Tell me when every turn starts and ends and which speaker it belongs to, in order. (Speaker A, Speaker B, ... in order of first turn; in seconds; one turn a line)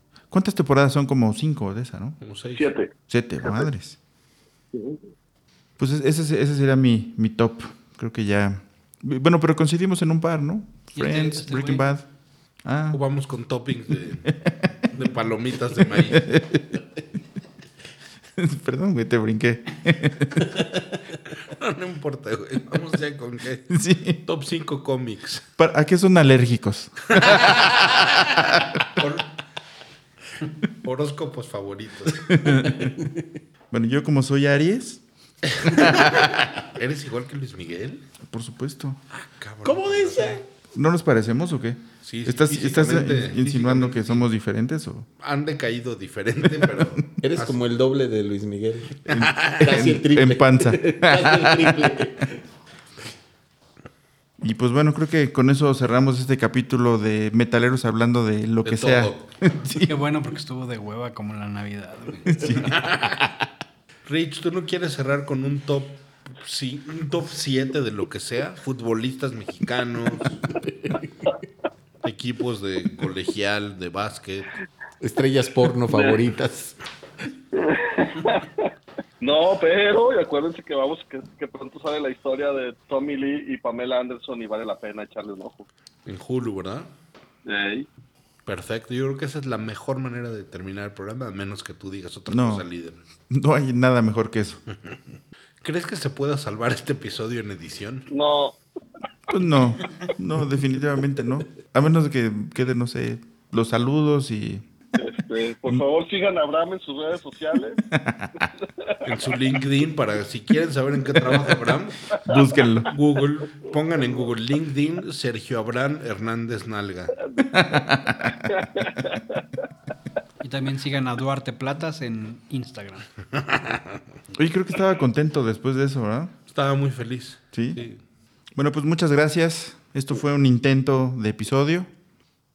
Speaker A: 0.3-2.2
Speaker B: 2.2-2.7
Speaker C: 2.5-2.9
Speaker A: 3.1-4.0
Speaker C: 4.7-5.0
Speaker A: 5.8-12.1
Speaker D: 10.9-11.9
Speaker A: 12.6-13.0
Speaker B: 12.9-14.4
Speaker A: 14.2-14.9
Speaker B: 14.9-16.3
Speaker A: 16.1-16.8
Speaker A: 18.4-20.8
Speaker B: 21.3-25.4
Speaker A: 23.7-24.2
Speaker A: 25.6-29.0
Speaker B: 27.1-28.3
Speaker B: 28.9-29.3
Speaker B: 30.6-32.8
Speaker A: 32.3-33.1
Speaker A: 33.7-35.0
Speaker B: 35.5-38.0
Speaker A: 35.6-36.3
Speaker A: 38.2-39.0
Speaker B: 39.1-40.4
Speaker E: 39.6-40.4
Speaker A: 40.7-45.1
Speaker B: 42.0-44.3
Speaker B: 45.2-47.6
Speaker E: 47.2-52.4
Speaker B: 49.1-49.6
Speaker A: 49.1-51.9
Speaker A: 54.4-59.9
Speaker B: 58.6-59.2
Speaker D: 59.7-62.6
Speaker A: 62.2-62.7
Speaker B: 62.5-63.3
Speaker B: 64.0-70.6
Speaker E: 70.6-71.3
Speaker B: 72.0-74.5
Speaker E: 75.0-76.8
Speaker C: 75.9-76.2
Speaker C: 77.5-78.7
Speaker C: 79.2-85.7
Speaker B: 86.0-86.9
Speaker C: 87.4-87.9
Speaker B: 88.5-93.0
Speaker A: 92.3-92.6
Speaker A: 93.3-94.6
Speaker B: 95.6-98.1
Speaker C: 98.1-98.6
Speaker A: 99.3-104.6
Speaker C: 105.0-107.8
Speaker A: 107.9-108.5
Speaker C: 108.6-109.0
Speaker B: 109.0-112.1
Speaker A: 112.2-112.9
Speaker B: 112.9-117.2
Speaker A: 117.4-118.9
Speaker C: 118.5-119.4
Speaker D: 120.4-123.1
Speaker B: 123.4-124.0
Speaker A: 124.3-126.3
Speaker B: 126.5-128.0
Speaker A: 127.5-127.8
Speaker A: 128.6-131.9